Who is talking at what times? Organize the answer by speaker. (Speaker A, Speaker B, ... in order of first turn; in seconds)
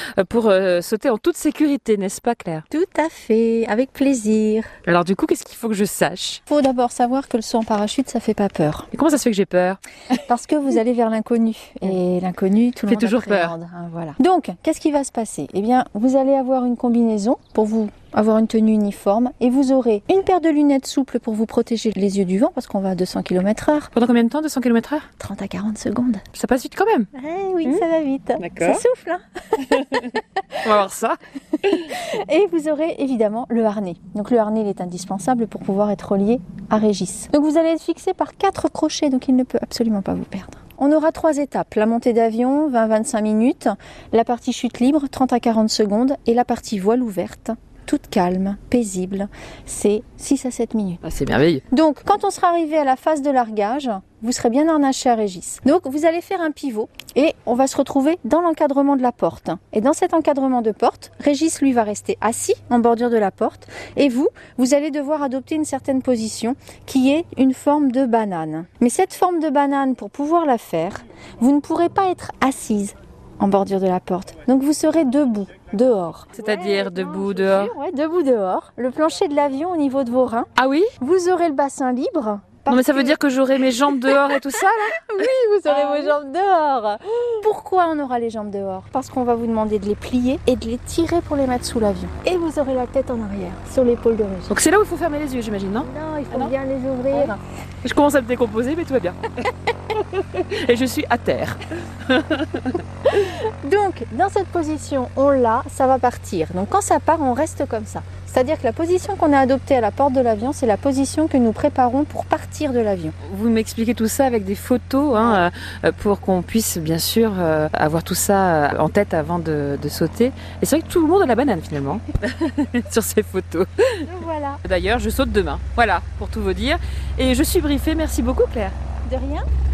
Speaker A: 0.2-2.6, 4.8-6.4, 8.9-9.8, 12.9-13.5, 23.9-25.1, 26.3-27.1, 28.4-28.8, 29.6-31.2, 51.0-51.6, 76.3-77.7, 80.5-80.9, 82.7-85.1, 85.7-86.0, 94.5-95.9, 97.8-99.2, 99.9-102.8, 113.2-123.7, 124.6-128.7
Speaker B: 2.7-4.7, 6.5-8.9, 10.2-23.9, 25.2-26.2, 27.1-30.6, 31.6-51.0, 51.7-83.2, 83.8-94.5, 95.8-97.4, 103.1-113.1, 115.2-115.5, 124.0-124.6, 129.0-129.4